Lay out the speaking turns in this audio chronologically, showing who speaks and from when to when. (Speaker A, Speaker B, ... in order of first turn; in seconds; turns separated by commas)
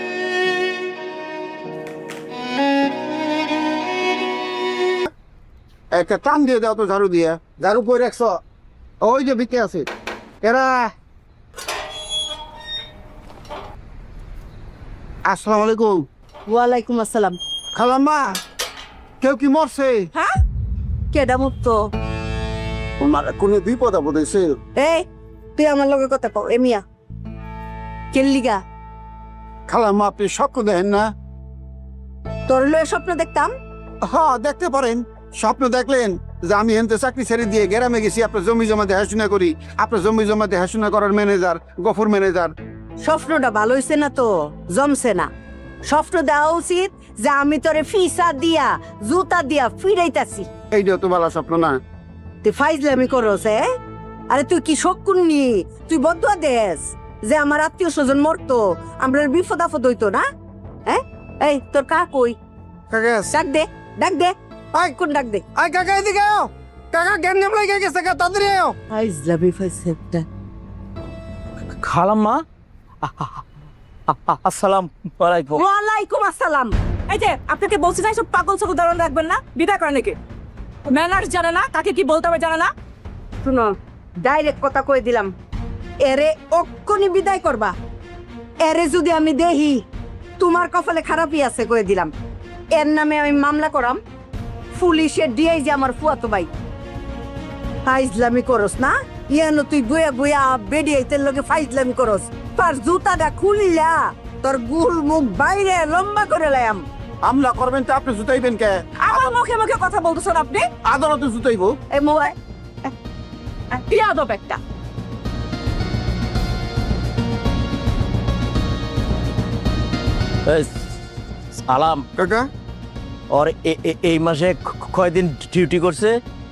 Speaker A: 5.9-8.4, Speaker A: 9.0-9.9, Speaker A: 10.4-10.9, Speaker A: 15.3-16.1, Speaker B: 16.5-17.4, Speaker A: 17.8-18.4, Speaker A: 19.2-20.1, Speaker A: 23.0-24.6, Speaker B: 25.6-26.8, Speaker B: 28.1-28.6, Speaker A: 29.7-31.1, Speaker B: 32.5-33.5, Speaker A: 34.0-42.5, Speaker B: 43.0-45.3, Speaker B: 45.9-50.5, Speaker A: 50.7-51.8, Speaker B: 52.4-53.6, Speaker B: 54.3-60.2, Speaker B: 60.9-62.4, Speaker A: 62.9-63.4, Speaker B: 63.3-64.3, Speaker B: 65.0-65.4, Speaker A: 65.6-68.8, Speaker B: 68.9-70.2, Speaker C: 71.7-72.4, Speaker C: 73.0-73.4, Speaker C: 74.1-75.7, Speaker B: 75.6-76.7, Speaker D: 77.1-80.2, Speaker D: 80.9-82.7, Speaker B: 83.4-83.7, Speaker B: 84.2-85.3, Speaker B: 86.1-87.7, Speaker B: 88.7-89.8, Speaker B: 90.4-92.1, Speaker B: 92.8-94.0, Speaker B: 94.8-96.5, Speaker B: 97.9-106.8, Speaker A: 107.2-108.8, Speaker D: 109.0-110.7, Speaker A: 110.9-111.8, Speaker B: 111.9-112.3, Speaker D: 113.9-114.6, Speaker C: 120.5-120.7, Speaker C: 121.6-122.0, Speaker A: 122.2-122.5, Speaker C: 123.3-126.1